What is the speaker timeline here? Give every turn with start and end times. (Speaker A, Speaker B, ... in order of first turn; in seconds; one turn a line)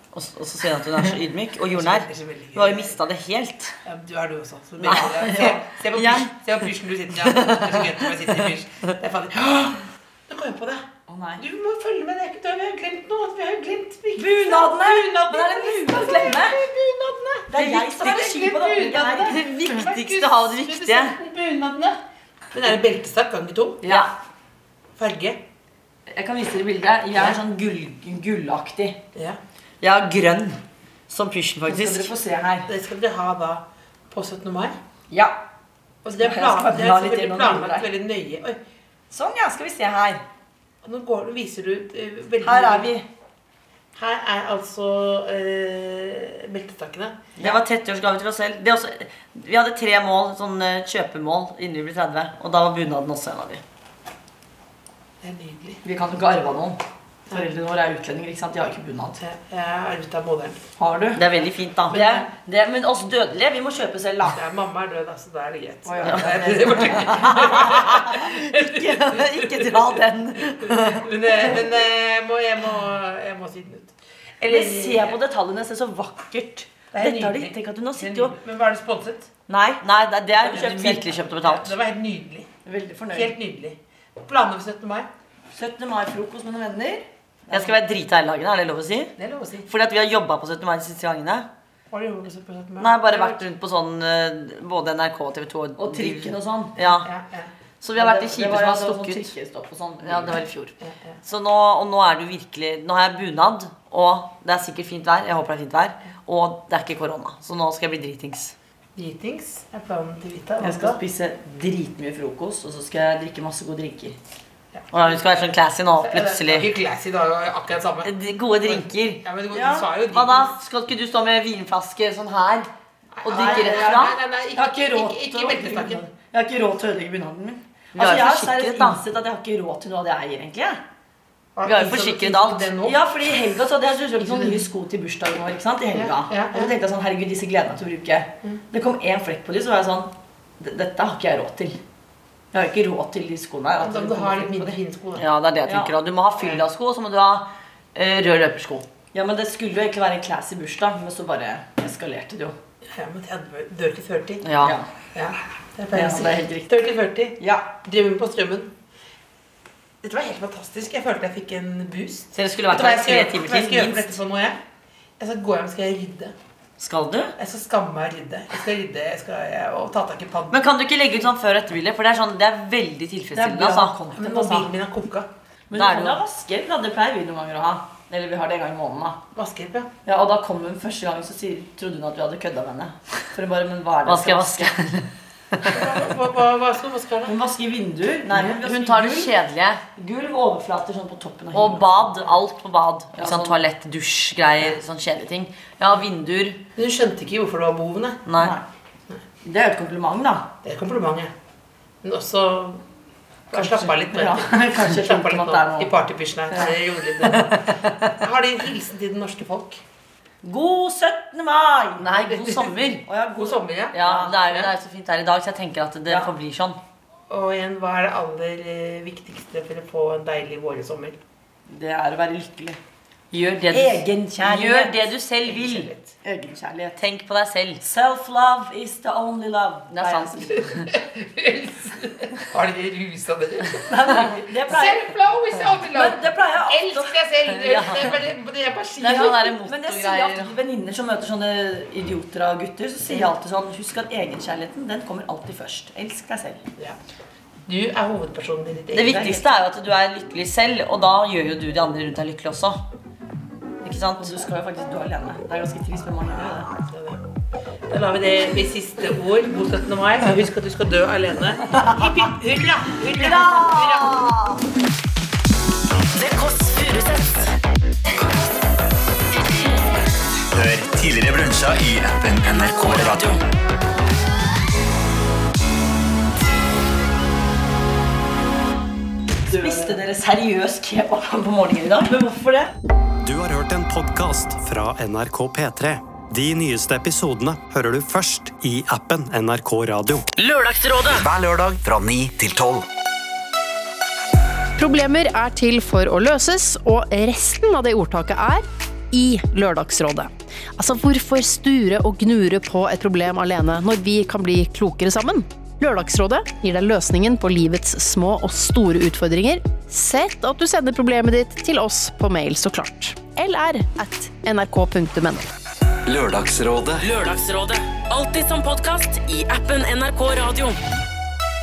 Speaker A: 0.1-3.8
Speaker B: 1.7-3.0
Speaker B: 3.8-10.8
Speaker A: 4.8-6.3
Speaker A: 7.2-8.5
Speaker C: 11.1-11.4
Speaker B: 11.4-22.0
Speaker C: 14.2-16.6
Speaker C: 17.5-19.4
Speaker A: 17.6-18.3
Speaker A: 18.9-21.1
Speaker B: 22.5-23.9
Speaker C: 23.8-24.1
Speaker B: 25.0-25.4
Speaker C: 26.1-29.0
Speaker A: 29.8-32.1
Speaker C: 31.7-32.7
Speaker B: 32.7-34.7
Speaker C: 35.1-35.4
Speaker B: 36.0-38.6
Speaker C: 36.2-37.9
Speaker C: 39.1-40.2
Speaker B: 40.8-42.9
Speaker C: 42.4-43.0
Speaker B: 43.9-47.3
Speaker A: 47.4-53.6
Speaker B: 55.2-55.8
Speaker C: 55.8-59.2
Speaker B: 59.2-60.6
Speaker C: 60.8-61.2
Speaker A: 61.1-62.0
Speaker C: 61.9-64.4
Speaker B: 61.9-62.3
Speaker B: 64.3-70.0
Speaker C: 65.8-67.8
Speaker A: 67.2-71.1
Speaker B: 70.6-75.2
Speaker C: 74.5-78.3
Speaker B: 76.9-79.3
Speaker C: 79.5-79.8
Speaker A: 79.8-81.7
Speaker B: 80.4-82.5
Speaker C: 80.4-81.1
Speaker C: 82.6-83.3
Speaker B: 83.1-85.1
Speaker C: 85.5-87.7
Speaker A: 87.5-91.5
Speaker B: 89.2-89.7
Speaker B: 91.9-93.4
Speaker A: 92.8-97.1
Speaker C: 95.8-96.8
Speaker B: 97.0-97.5
Speaker A: 97.8-99.3
Speaker C: 97.9-100.7
Speaker A: 100.0-100.5
Speaker B: 100.8-101.1
Speaker A: 101.2-108.5
Speaker B: 109.0-111.0
Speaker C: 110.6-114.2
Speaker B: 114.7-115.3
Speaker A: 114.9-116.7
Speaker B: 116.0-120.5
Speaker A: 118.0-119.2
Speaker C: 119.5-119.9
Speaker A: 120.1-122.7
Speaker B: 123.2-126.0
Speaker A: 123.2-124.0
Speaker C: 123.3-130.8
Speaker A: 128.0-129.0
Speaker B: 131.6-133.0
Speaker A: 131.7-132.7
Speaker C: 132.8-141.8
Speaker B: 134.2-134.6
Speaker B: 135.9-136.7
Speaker C: 142.5-144.8
Speaker B: 143.8-145.2
Speaker A: 145.2-148.8
Speaker C: 145.7-145.9
Speaker C: 149.1-152.5
Speaker B: 152.8-154.4
Speaker A: 154.4-154.8
Speaker B: 155.1-158.7
Speaker C: 155.9-156.8
Speaker C: 157.4-157.7
Speaker B: 160.0-164.6
Speaker A: 162.3-164.2
Speaker B: 165.2-166.3
Speaker A: 166.8-167.3
Speaker B: 167.4-170.6
Speaker A: 170.5-173.9
Speaker C: 173.3-174.7
Speaker B: 174.1-175.3
Speaker C: 175.7-179.2
Speaker A: 175.7-176.2
Speaker B: 179.3-179.9
Speaker C: 180.0-184.7
Speaker A: 184.0-185.8
Speaker B: 185.6-187.4
Speaker C: 187.3-189.3
Speaker A: 188.3-189.8
Speaker C: 189.9-192.3
Speaker A: 191.5-196.6
Speaker C: 193.2-193.7
Speaker B: 196.8-198.2
Speaker A: 198.3-198.6
Speaker C: 198.4-198.7
Speaker C: 199.4-200.5
Speaker B: 200.6-201.3
Speaker B: 202.0-202.8
Speaker B: 203.5-209.8
Speaker C: 203.5-205.9
Speaker C: 206.5-206.8
Speaker A: 207.5-208.1
Speaker C: 210.4-212.1
Speaker A: 212.0-213.0
Speaker B: 212.3-212.7
Speaker C: 213.0-214.3
Speaker B: 213.3-214.7
Speaker A: 213.9-216.8
Speaker B: 217.3-221.2
Speaker C: 221.7-222.8
Speaker A: 223.3-225.9
Speaker C: 223.6-225.1
Speaker B: 225.4-226.1
Speaker C: 226.2-227.0
Speaker A: 227.0-227.8
Speaker C: 227.8-230.7
Speaker A: 229.9-230.7
Speaker B: 230.5-239.5
Speaker C: 233.8-235.1
Speaker C: 235.9-237.8
Speaker A: 237.6-238.1
Speaker A: 239.0-240.5
Speaker C: 239.0-246.6
Speaker B: 247.7-249.5
Speaker A: 248.9-252.8
Speaker A: 253.8-254.3
Speaker C: 254.2-256.7
Speaker B: 256.3-257.2
Speaker B: 257.9-264.3
Speaker A: 263.1-264.6
Speaker D: 266.1-267.5
Speaker E: 270.5-273.4
Speaker D: 272.5-273.4
Speaker C: 279.5-282.7
Speaker B: 279.5-279.9
Speaker F: 283.2-290.3
Speaker D: 290.4-291.3
Speaker E: 291.2-292.9
Speaker G: 294.8-315.5
Speaker E: 316.1-317.1
Speaker D: 317.0-320.8